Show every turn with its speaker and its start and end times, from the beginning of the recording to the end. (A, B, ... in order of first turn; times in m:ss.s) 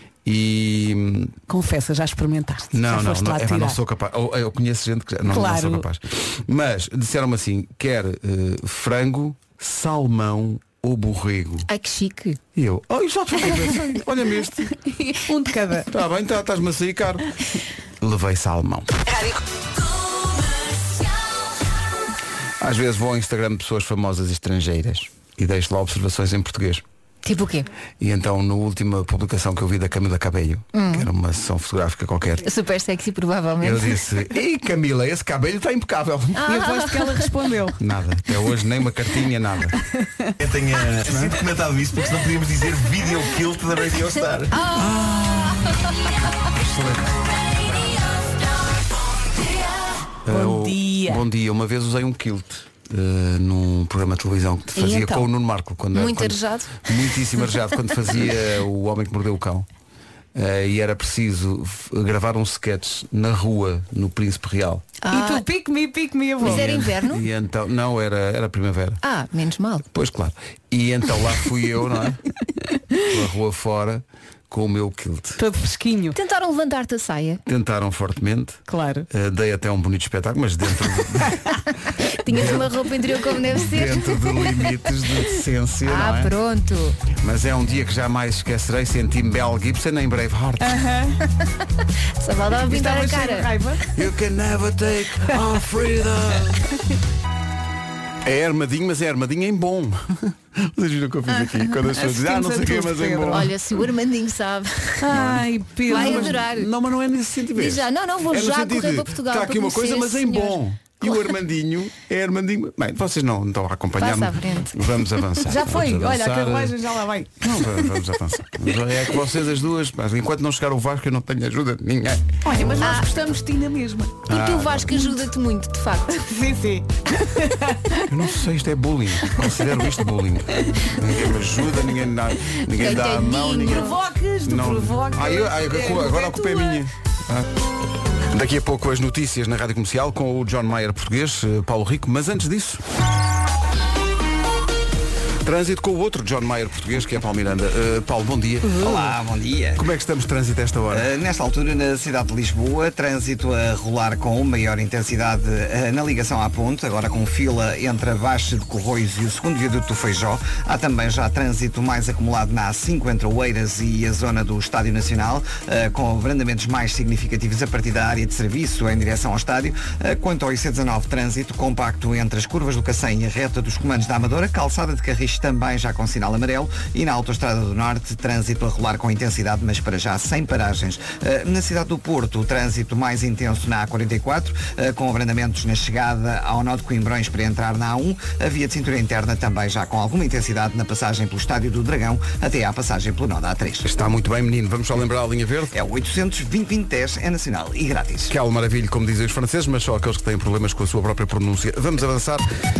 0:00.2-0:01.3 A
0:01.5-0:03.8 B
0:02.7-0:11.7 A
0:05.3-0:05.9 B
0:11.7-0:12.4 C
0:12.6-0:14.7 A
0:14.8-0:15.9 B
0:15.9-0:17.3 A
0:18.0-0:19.2 A
0:22.6-0:26.8 A
0:27.2-0:27.7 C
0:28.0-0:32.5 A
0:30.7-0:31.1 C
0:32.4-0:34.0 C
0:33.6-0:36.4 A
0:36.4-0:37.2 C
0:36.4-0:37.8 B
0:37.8-0:39.8 A
0:40.4-0:44.5 D
0:41.1-0:41.3 A
0:44.6-0:44.8 C
0:44.8-0:45.6 A
0:50.3-0:59.7 A
0:50.3-0:51.2 B
0:54.8-0:55.3 B
0:55.9-0:56.9 C
1:00.4-1:04.9 A
1:05.0-1:05.4 C
1:05.1-1:06.7 B
1:06.4-1:07.2 C
1:06.4-1:09.0 A
1:09.0-1:09.9 C
1:09.9-1:12.2 A
1:13.1-1:15.4 A
1:15.4-1:16.2 B
1:16.1-1:17.4 C
1:17.5-1:21.6 A
1:18.7-1:19.1 B
1:22.2-1:24.4 C
1:22.3-1:22.7 A
1:23.5-1:26.3 A
1:25.8-1:27.1 C
1:27.1-1:30.8 A
1:30.6-1:31.2 B
1:32.2-1:33.5 C
1:32.7-1:33.9 B
1:34.0-1:36.6 A
1:38.2-1:43.5 A
1:42.0-1:43.5 B
1:43.3-1:45.1 C
1:45.0-1:46.4 B
1:45.1-1:56.8 A
1:45.9-1:46.7 C
1:47.5-1:51.3 C
1:54.0-1:54.8 C
1:55.4-1:57.8 B
1:57.4-2:02.2 A
2:02.4-2:04.2 B
2:02.8-2:03.1 C
2:04.3-2:05.0 A
2:04.3-2:06.2 C
2:06.3-2:08.0 B
2:08.1-2:13.9 A
2:12.7-2:13.9 C
2:13.7-2:16.8 B
2:14.5-2:17.5 A
2:18.3-2:22.8 A
2:25.4-2:29.1 A
2:28.7-2:29.8 E
2:29.8-2:31.1 A
2:30.9-3:13.9 E
3:13.8-3:15.7 A
3:15.7-3:18.3 E
3:18.3-3:22.5 A